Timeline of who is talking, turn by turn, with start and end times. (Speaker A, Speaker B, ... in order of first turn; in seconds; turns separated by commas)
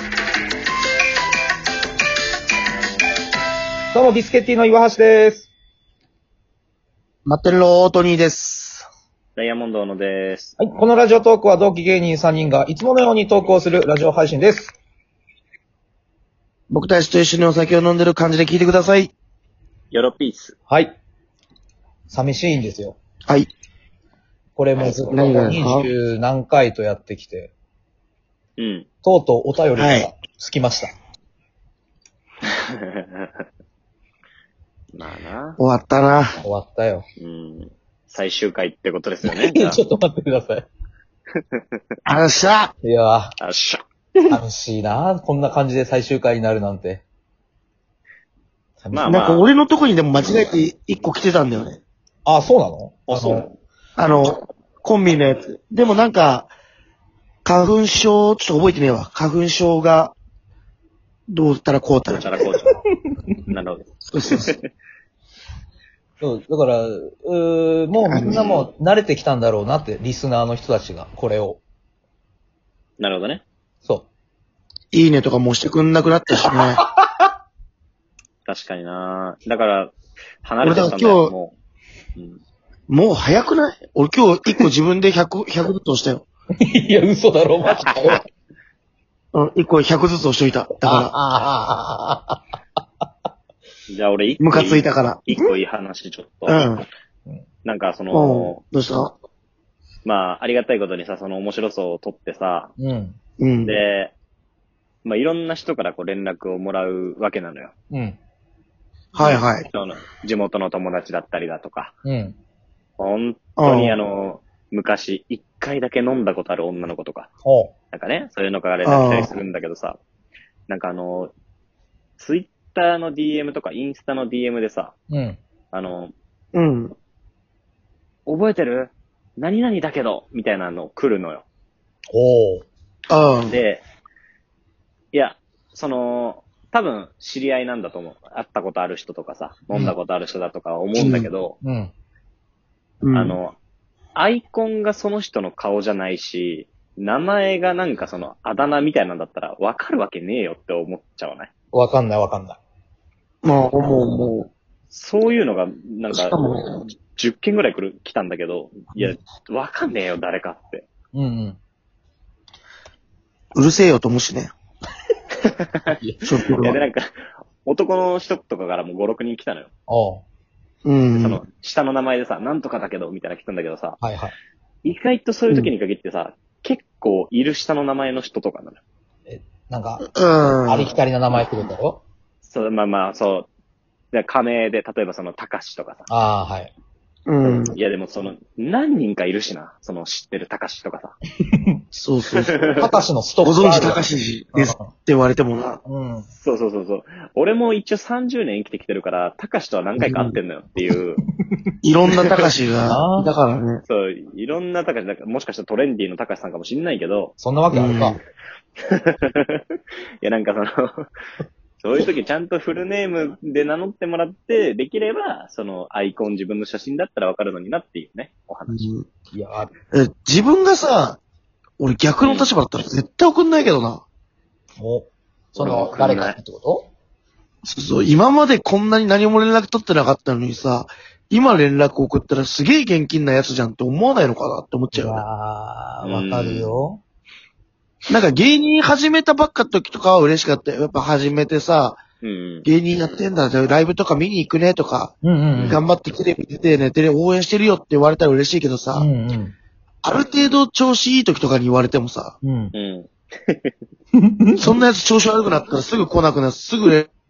Speaker A: 3.9-5.5, Speaker B: 7.2-8.8, Speaker C: 9.3-10.5, Speaker A: 10.6-14.7, Speaker B: 16.7-19.1, Speaker C: 19.9-20.6, Speaker A: 20.7-20.9, Speaker A: 22.1-22.9, Speaker A: 24.6-27.5, Speaker B: 24.8-25.9, Speaker C: 28.6-28.9, Speaker A: 29.0-30.9, Speaker B: 29.8-30.1, Speaker C: 32.5-33.4, Speaker C: 34.9-35.6, Speaker B: 35.6-36.4, Speaker A: 36.4-37.0, Speaker C: 37.2-39.8, Speaker A: 39.2-40.6, Speaker B: 42.0-42.7, Speaker A: 42.8-43.3, Speaker C: 43.4-44.4, Speaker A: 44.3-47.0, Speaker A: 48.8-49.1, Speaker C: 48.9-49.5, Speaker B: 49.0-51.8, Speaker A: 52.2-53.5, Speaker C: 53.1-53.5, Speaker B: 54.0-56.5, Speaker B: 57.4-60.1, Speaker B: 61.3-62.3, Speaker C: 62.1-62.8, Speaker C: 63.5-64.6, Speaker B: 64.0-64.5, Speaker A: 66.2-71.6, Speaker B: 68.1-68.6, Speaker C: 73.0-73.4, Speaker B: 74.9-76.8, Speaker A: 77.0-77.3, Speaker C: 78.5-79.9, Speaker C: 80.4-81.5, Speaker B: 80.6-81.3, Speaker B: 82.9-86.2, Speaker A: 86.6-88.2, Speaker C: 87.7-88.2, Speaker B: 89.3-91.1, Speaker A: 90.8-92.4, Speaker C: 93.9-96.7, Speaker B: 94.4-95.5, Speaker B: 96.5-96.8, Speaker C: 97.6-98.6, Speaker B: 98.1-99.2, Speaker C: 100.0-102.7, Speaker A: 102.8-103.2, Speaker B: 103.4-103.8, Speaker C: 103.6-104.1, Speaker C: 105.0-107.7, Speaker A: 107.9-108.2, Speaker B: 109.1-109.7, Speaker C: 109.2-111.9, Speaker A: 112.0-112.4, Speaker C: 113.0-117.3, Speaker B: 113.6-114.0, Speaker A: 117.4-117.7, Speaker C: 117.9-120.0, Speaker B: 118.8-119.3, Speaker C: 120.7-121.3, Speaker C: 122.2-125.0, Speaker A: 125.1-125.4, Speaker C: 125.7-126.1, Speaker B: 126.5-126.9, Speaker C: 128.3-131.4, Speaker A: 132.1-132.7, Speaker B: 133.1-133.6, Speaker C: 133.5-133.8, Speaker C: 135.1-141.6, Speaker B: 140.9-141.3, Speaker A: 141.6-141.9, Speaker B: 143.0-143.4, Speaker C: 143.1-143.5, Speaker C: 144.2-151.5, Speaker A: 151.7-152.6, Speaker B: 153.4-154.5, Speaker C: 154.9-156.4, Speaker B: 156.1-156.9, Speaker C: 156.9-160.8, Speaker A: 161.1-161.6, Speaker B: 163.5-164.5, Speaker C: 165.4-166.0, Speaker A: 165.9-166.2, Speaker B: 166.2-166.8, Speaker C: 166.6-167.0, Speaker C: 167.6-169.7, Speaker A: 169.9-170.2, Speaker B: 170.8-171.4, Speaker C: 171.1-174.0, Speaker A: 174.0-174.3, Speaker C: 174.8-178.8, Speaker A: 179.3-180.1, Speaker B: 180.0-180.9, Speaker A: 180.7-182.0, Speaker C: 182.4-183.5, Speaker C: 184.1-186.1, Speaker A: 186.1-186.7, Speaker B: 187.3-187.8, Speaker C: 187.4-191.2, Speaker B: 191.9-192.5, Speaker C: 192.3-193.0, Speaker A: 192.8-194.9, Speaker B: 193.4-195.8, Speaker A: 195.8-196.3, Speaker C: 196.3-201.2, Speaker B: 200.0-200.3, Speaker B: 201.8-203.8, Speaker A: 202.9-203.3, Speaker C: 203.8-207.3, Speaker A: 207.4-208.2, Speaker B: 207.7-208.2, Speaker C: 208.8-209.6, Speaker C: 210.2-211.1, Speaker C: 211.8-218.9, Speaker B: 218.7-219.1, Speaker A: 219.3-219.7, Speaker B: 219.9-221.2, Speaker B: 221.8-224.0, Speaker C: 222.2-222.5, Speaker A: 224.8-226.9, Speaker C: 225.6-226.4, Speaker B: 227.6-235.2, Speaker A: 234.9-237.0, Speaker C: 236.0-236.8, Speaker B: 238.1-242.0, Speaker C: 242.2-242.7, Speaker B: 242.6-245.1, Speaker A: 245.2-245.8, Speaker C: 245.5-245.8, Speaker B: 245.6-249.1, Speaker A: 248.9-249.5, Speaker B: 250.0-252.3, Speaker A: 252.4-252.7, Speaker C: 252.7-253.7, Speaker A: 254.1-254.6, Speaker B: 254.6-257.1